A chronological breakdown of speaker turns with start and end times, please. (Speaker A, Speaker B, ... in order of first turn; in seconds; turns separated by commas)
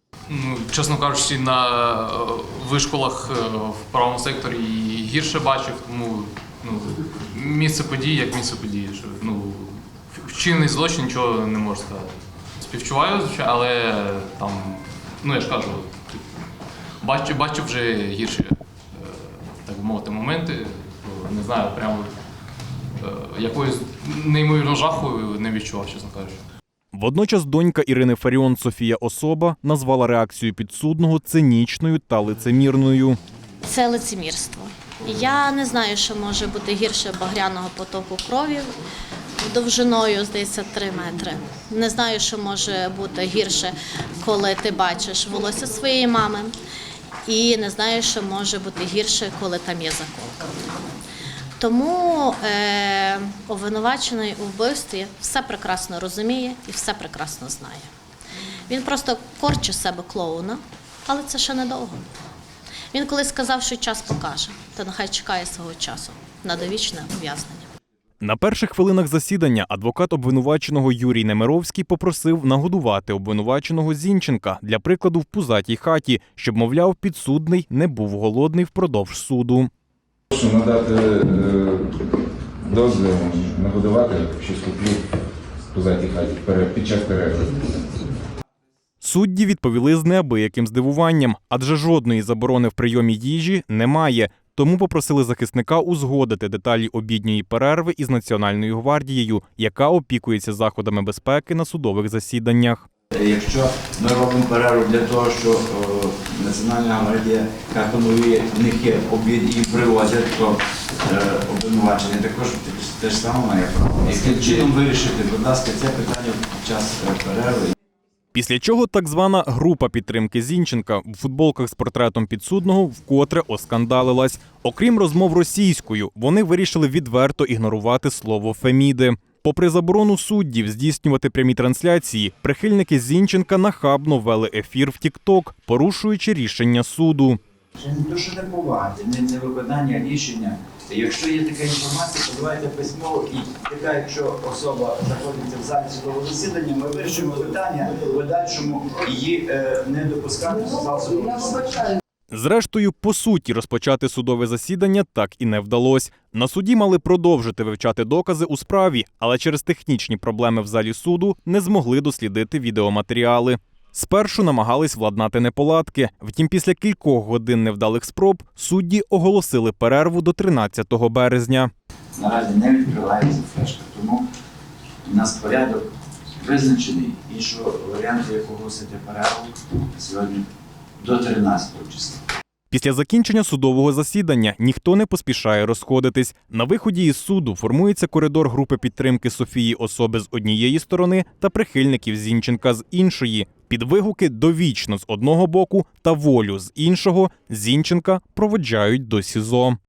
Speaker A: 0.3-16.3, Speaker A: 17.0-22.1, Speaker A: 23.0-26.4, Speaker B: 26.9-33.2, Speaker C: 33.6-38.7, Speaker C: 39.4-46.5, Speaker C: 47.3-50.6, Speaker C: 51.6-57.9, Speaker C: 58.7-62.0, Speaker C: 62.9-67.7, Speaker B: 68.2-79.7, Speaker D: 80.3-82.0, Speaker D: 82.6-85.1, Speaker D: 85.7-87.7, Speaker B: 89.0-102.9, Speaker E: 103.2-117.7, Speaker D: 114.2-114.7, Speaker B: 118.3-137.4, Speaker E: 137.8-151.9, Speaker B: 152.3-171.7, Speaker E: 172.2-174.2, Speaker E: 175.0-175.9, Speaker E: 176.4-180.4, Speaker E: 181.0-182.2, Speaker B: 182.7-199.8